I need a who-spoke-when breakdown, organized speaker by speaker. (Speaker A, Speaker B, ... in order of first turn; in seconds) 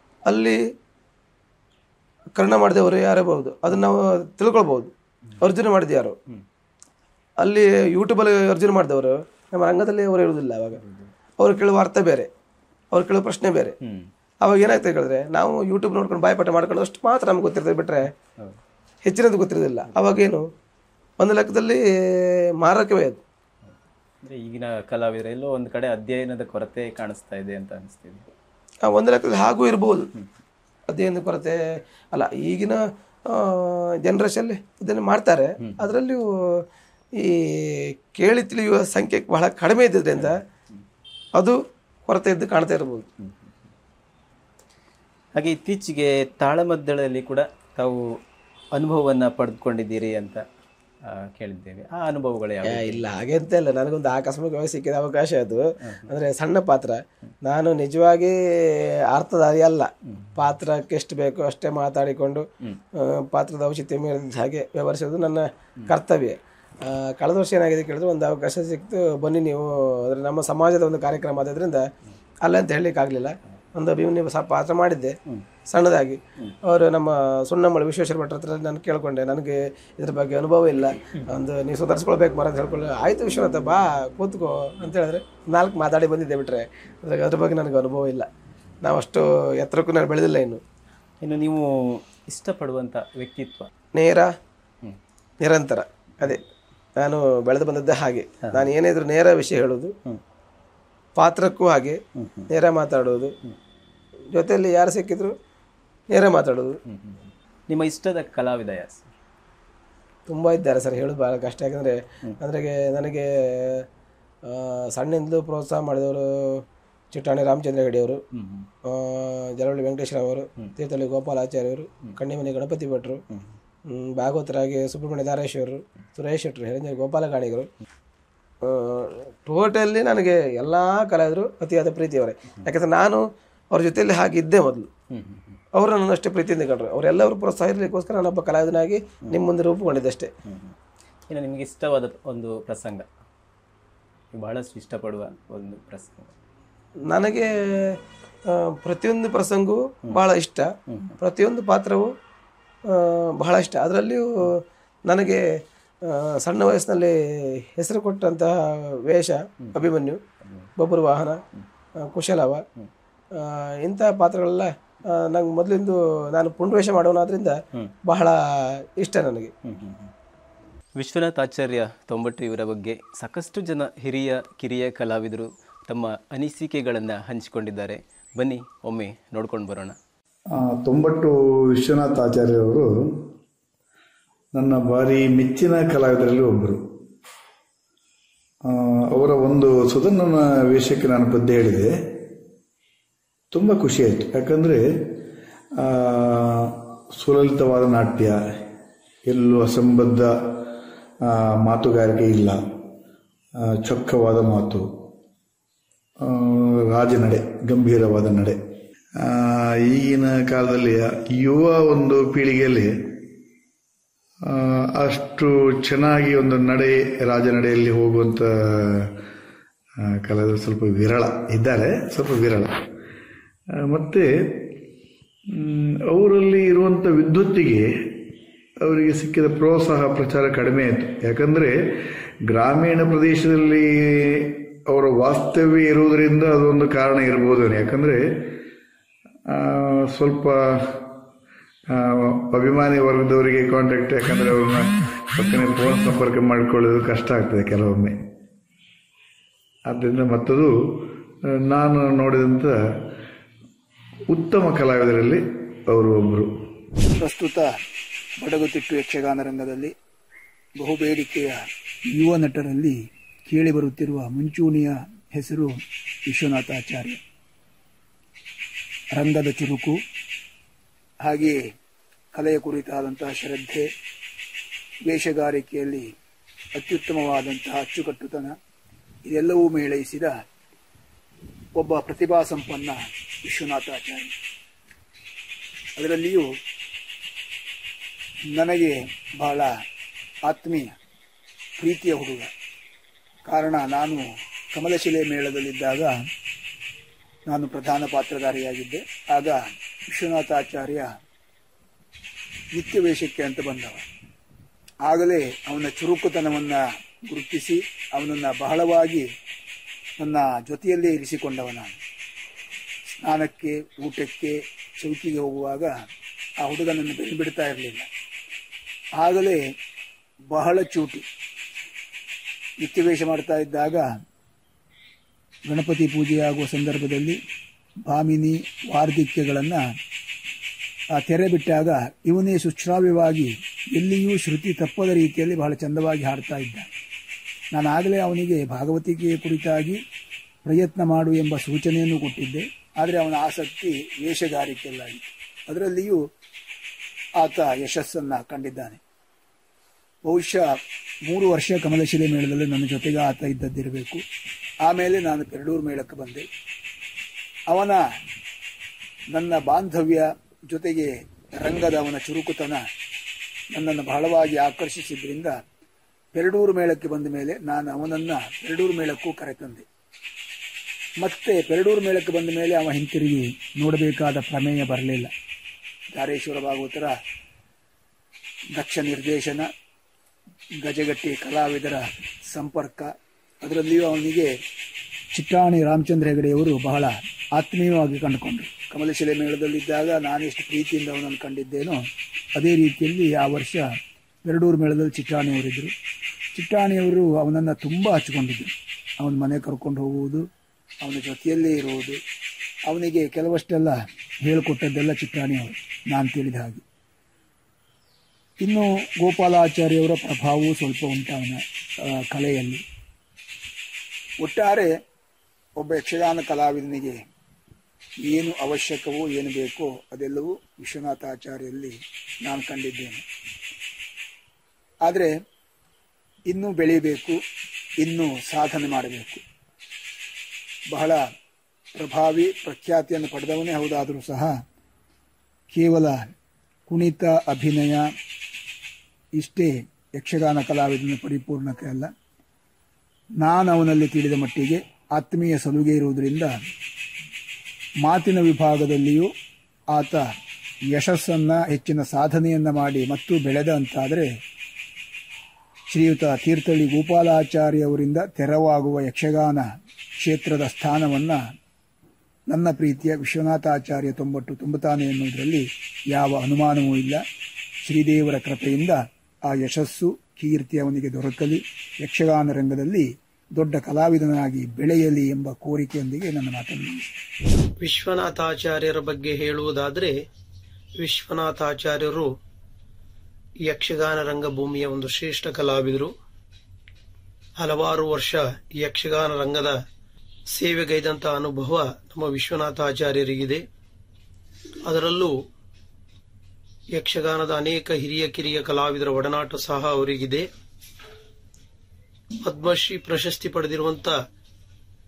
Speaker A: 0.3-0.6, 2.4-6.2, 7.4-10.8, 11.4-12.3, 12.9-13.8, 14.4-18.1, 19.1-20.5, 21.2-23.2, 28.9-30.1, 30.9-31.6, 32.1-36.6, 37.2-40.4, 41.4-43.1, 52.7-62.5, 63.0-71.9, 72.4-75.2, 75.7-88.3, 88.8-90.6, 94.0-94.3, 95.4-96.4, 97.0-99.9, 101.2-102.0, 102.5-103.3, 104.3-105.3, 106.1-106.8, 110.3-113.8, 114.5-118.2, 118.9-123.2, 123.9-127.7, 128.6-134.9, 135.8-140.3, 147.1-148.0, 148.5-152.1, 152.9-154.5, 155.1-155.4, 156.1-157.2, 157.8-160.2, 160.8-161.4, 162.0-162.6, 163.3-169.5
Speaker B: 10.8-11.1, 13.8-14.1, 24.2-28.3, 45.4-48.0, 48.7-50.4, 51.1-53.0, 55.8-56.1, 60.1-60.3, 91.2-93.7, 102.2-102.5, 106.9-109.1, 118.3-118.7, 123.3-123.5, 135.1-135.6, 140.5-140.7, 141.3-143.1, 144.3-146.3, 150.9-151.2, 160.4-160.7, 169.7-170.1, 171.0-180.0
Speaker C: 180.6-183.3, 184.6-186.8, 188.7-191.9, 193.5-194.8, 195.8-198.4, 199.3-200.3, 201.3-202.6, 203.8-204.9, 206.2-208.6, 209.2-213.1, 214.5-219.1, 220.1-222.8, 223.8-224.7, 225.5-228.1, 228.8-238.5, 239.5-241.0, 241.9-248.2, 249.9-251.0, 251.5-252.8, 254.3-256.6
Speaker D: 257.1-257.7, 258.4-259.9, 260.8-262.9, 263.5-265.7, 266.3-267.2, 269.1-270.0, 271.2-271.6, 272.4-273.9, 275.1-276.1, 276.8-278.6, 279.3-280.4, 281.8-284.3, 286.0-286.5, 288.5-289.7, 290.5-290.9, 291.8-292.5, 293.5-296.1, 297.5-301.1, 302.8-304.1, 305.1-309.2, 310.2-312.0, 313.2-315.9, 316.6-318.1, 319.2-319.6, 320.5-321.2, 322.8-324.1, 325.7-327.4, 328.1-329.8, 331.2-336.9, 337.8-340.0, 340.7-346.2, 347.4-349.0, 350.2-350.6, 351.3-354.2, 354.9-356.5, 357.7-358.0, 359.3-362.8, 363.7-365.6, 366.4-369.9, 371.2-375.3, 376.1-377.1, 378.8-379.7, 380.8-383.1, 383.6-384.5, 385.4-392.0, 392.6-393.9, 394.4-395.9, 396.6-400.4, 401.0-402.2, 402.9-406.8, 408.6-411.6, 412.3-412.8, 414.4-414.9, 415.8-417.2, 418.2-423.2, 426.5-427.4, 428.0-429.4, 430.9-431.2, 432.0-434.5, 435.7-436.3, 436.9-438.0, 439.4-442.1, 443.4-446.5, 448.1-449.3, 449.9-450.2, 450.9-454.3, 455.9-459.7, 460.2-461.4, 462.5-467.2, 467.9-477.0
Speaker E: 477.8-480.2, 481.0-482.3, 483.6-486.1, 487.6-489.8, 490.5-493.6, 494.9-495.4, 496.9-500.5, 502.4-504.2